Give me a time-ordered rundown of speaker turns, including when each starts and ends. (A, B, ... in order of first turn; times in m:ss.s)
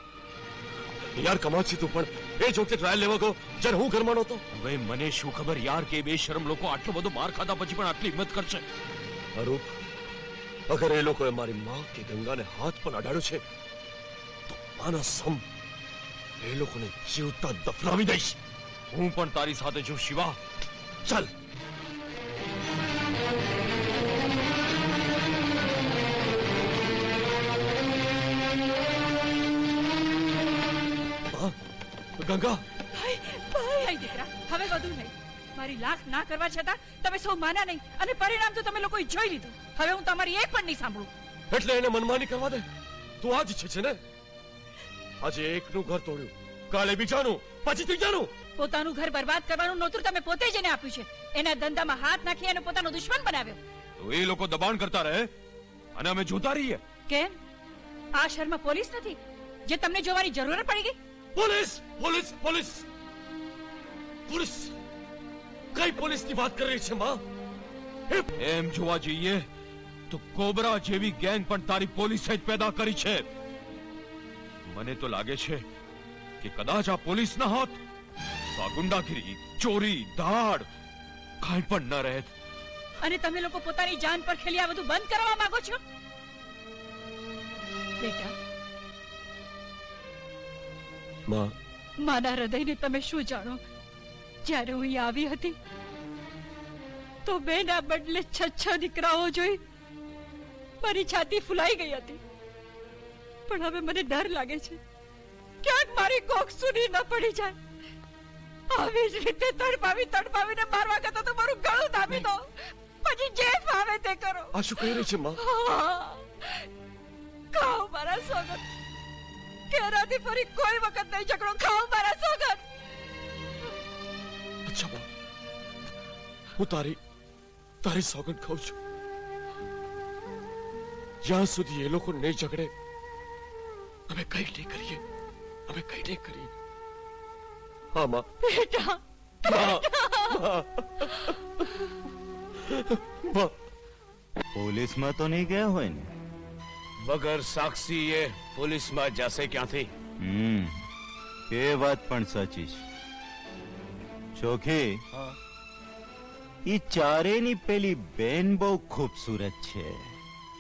0:01.2-0:04.4 A
0:04.6-0:08.6 B
0:09.4-0:09.8 A
0:10.7-0:13.4 A
0:14.5-0:15.4 A
0:16.4-0:18.4 A
0:18.9-0:20.4 B
0:21.1-0:21.3 A
0:32.2-0:32.6 A
0:32.9-0:41.1 C
0:41.5-0:42.7 A
0:43.2-0:44.0 A
0:45.2-0:48.3 A
0:48.6-0:53.6 C
0:54.0-0:55.3 B
0:56.0-0:56.8 B
0:57.1-0:57.4 C
0:58.2-1:01.0 C
1:01.4-1:02.8 A
1:04.3-1:04.7 A
1:05.7-1:07.2 A
1:08.4-1:09.5 B
1:10.1-1:13.2 B
1:14.7-1:15.6 B
1:16.4-1:17.8 B
1:18.5-1:20.7 B
1:21.4-1:22.3 B
1:23.0-1:25.8 C
1:28.0-1:28.3 C
1:31.3-1:31.5 A
1:32.0-1:33.6 C
1:34.4-1:35.6 C
1:37.2-1:39.6 C
1:40.8-1:42.2 C
1:43.5-1:44.8 C
1:45.6-1:47.6 C
1:48.7-1:52.5 C
1:53.0-1:54.9 C
1:54.5-1:55.4 A
1:55.4-1:56.7 C
1:57.5-1:58.6 C
1:59.7-2:02.6 C
2:04.7-2:05.1 A
2:06.6-2:07.0 A
2:07.8-2:08.8 A
2:11.2-2:12.7 A
2:14.1-2:15.0 A
2:15.7-2:16.5 A
2:17.9-2:18.3 A
2:18.4-2:20.4 C
2:19.4-2:21.4 A
2:22.7-2:23.5 A
2:24.6-2:26.1 D
2:27.0-2:29.9 E
2:30.2-2:30.8 D
2:31.5-2:32.8 D
2:34.4-2:34.9 D
2:36.7-2:40.1 D